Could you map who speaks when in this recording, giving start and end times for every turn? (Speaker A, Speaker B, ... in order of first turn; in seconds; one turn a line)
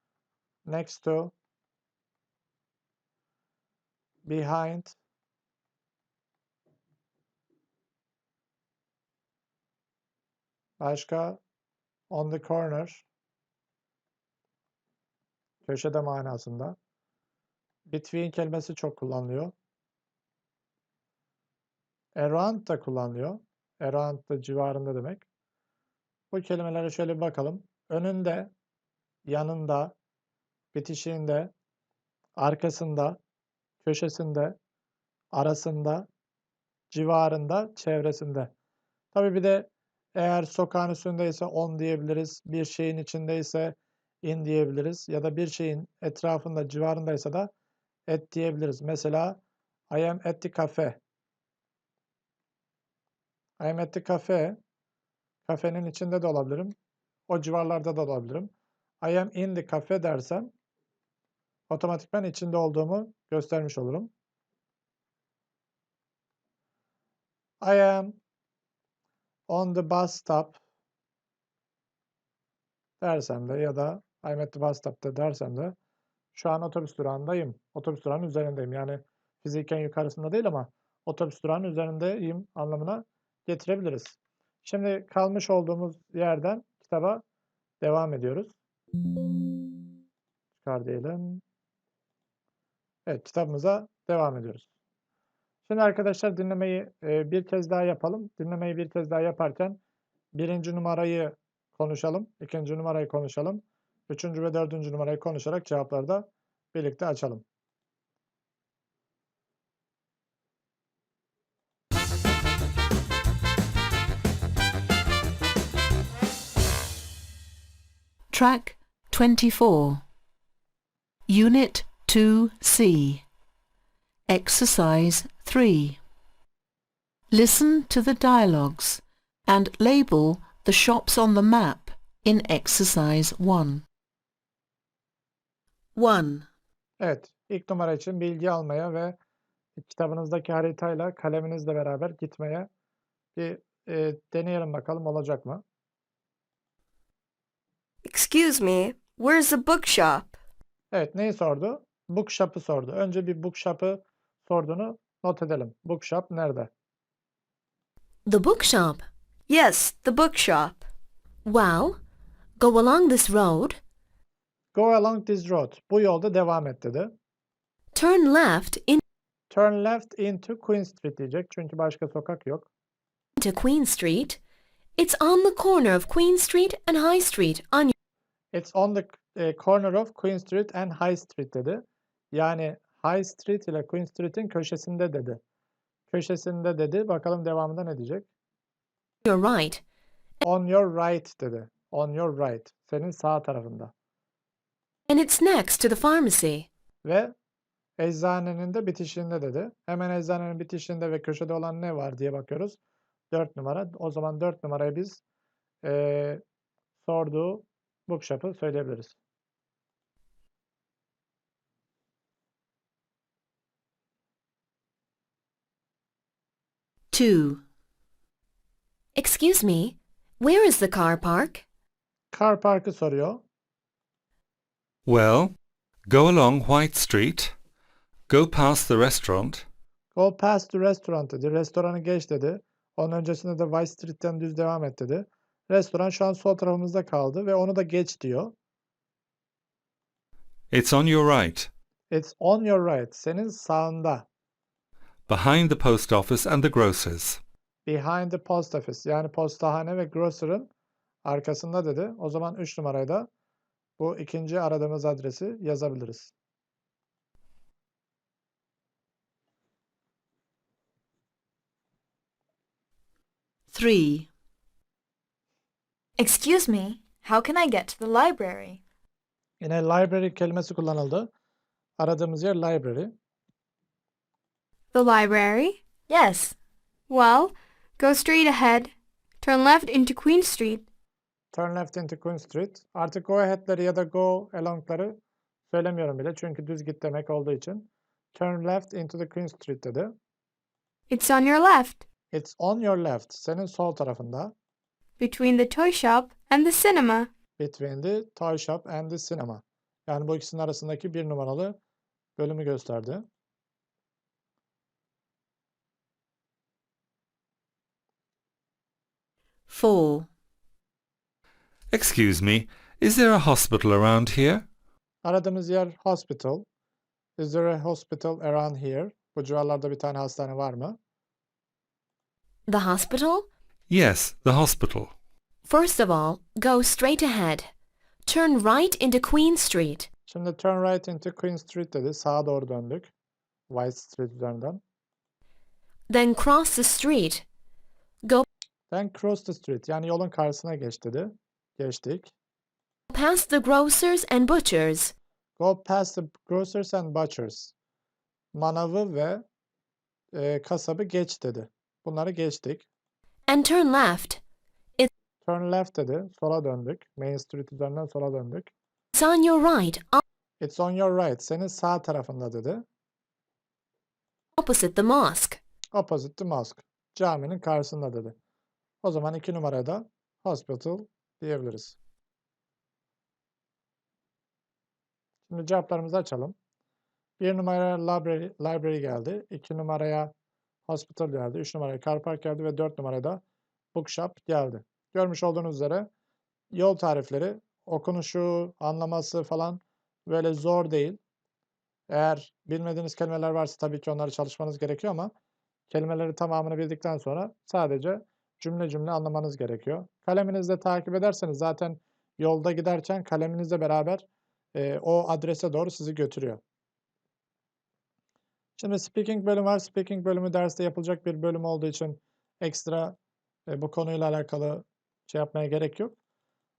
Speaker A: 0.7-1.3
Speaker A: 4.2-5.0
Speaker A: 10.8-11.4
Speaker A: 12.1-13.0
Speaker A: 15.7-16.8
Speaker A: 17.9-19.5
Speaker A: 22.2-25.2
Speaker A: 26.3-28.5
Speaker A: 29.3-29.9
Speaker A: 30.7-31.5
Speaker A: 32.4-33.2
Speaker A: 33.8-34.6
Speaker A: 35.3-36.1
Speaker A: 36.9-38.5
Speaker A: 39.1-47.5
Speaker A: 48.1-51.0
Speaker A: 53.6-54.6
Speaker A: 55.5-56.7
Speaker A: 57.3-60.5
Speaker A: 61.7-64.1
Speaker A: 67.6-68.2
Speaker A: 69.5-70.6
Speaker A: 73.0-75.8
Speaker A: 76.3-87.2
Speaker A: 87.8-88.5
Speaker A: 90.6-91.4
Speaker A: 93.1-94.7
Speaker A: 95.7-99.8
Speaker A: 100.3-107.4
Speaker B: 118.3-120.0
Speaker B: 121.3-123.2
Speaker B: 124.3-126.0
Speaker B: 127.3-133.8
Speaker B: 135.9-136.5
Speaker A: 137.0-139.2
Speaker A: 139.8-142.7
Speaker A: 143.4-145.6
Speaker C: 148.1-150.4
Speaker A: 150.9-156.7
Speaker D: 158.3-159.1
Speaker C: 159.5-160.8
Speaker D: 161.5-162.0
Speaker D: 162.6-163.8
Speaker A: 164.7-167.1
Speaker D: 167.9-169.0
Speaker A: 169.5-172.7
Speaker D: 173.4-174.4
Speaker D: 175.0-177.9
Speaker A: 178.5-185.4
Speaker A: 186.1-188.3
Speaker D: 189.2-189.8
Speaker A: 190.4-193.9
Speaker D: 195.1-196.7
Speaker A: 197.0-197.3
Speaker A: 198.0-202.8
Speaker A: 203.3-205.2
Speaker A: 205.8-206.4
Speaker A: 207.0-209.2
Speaker B: 217.1-217.6
Speaker D: 219.2-221.7
Speaker A: 222.3-223.4
Speaker E: 225.1-225.5
Speaker E: 226.1-227.6
Speaker E: 228.3-229.7
Speaker A: 230.2-238.5
Speaker E: 240.7-241.7
Speaker A: 242.1-244.3
Speaker E: 245.3-247.4
Speaker A: 247.9-250.7
Speaker A: 251.2-253.3
Speaker A: 254.0-256.3
Speaker B: 263.7-264.3
Speaker F: 266.2-268.8
Speaker A: 269.6-271.3
Speaker A: 272.0-273.1
Speaker G: 274.9-275.8
Speaker F: 276.1-276.6
Speaker G: 277.1-280.9
Speaker A: 281.5-290.2
Speaker G: 291.1-292.0
Speaker A: 292.3-294.5
Speaker G: 295.2-297.3
Speaker A: 297.6-301.8
Speaker A: 302.4-303.3
Speaker B: 309.7-310.3
Speaker E: 311.9-314.6
Speaker A: 315.2-316.7
Speaker A: 317.4-321.0
Speaker D: 322.7-323.5
Speaker E: 323.9-325.1
Speaker D: 325.6-327.7
Speaker D: 328.3-330.1
Speaker A: 330.3-333.1
Speaker A: 333.7-334.8
Speaker D: 336.1-337.4
Speaker A: 338.9-342.3
Speaker D: 343.1-345.1
Speaker A: 345.6-347.7
Speaker A: 348.5-349.4
Speaker A: 350.3-352.9
Speaker D: 353.5-354.4
Speaker A: 355.4-358.7
Speaker D: 359.1-360.2
Speaker A: 360.6-362.9
Speaker D: 364.6-365.6
Speaker A: 365.9-368.4
Speaker A: 369.0-372.0
Speaker A: 375.5-376.6
Speaker A: 377.4-380.3
Speaker A: 380.9-383.4
Speaker A: 383.9-386.1
Speaker A: 386.7-391.2
Speaker A: 392.1-395.3
Speaker A: 395.9-404.2
Speaker A: 404.8-406.6
Speaker A: 408.8-413.2
Speaker A: 413.7-416.1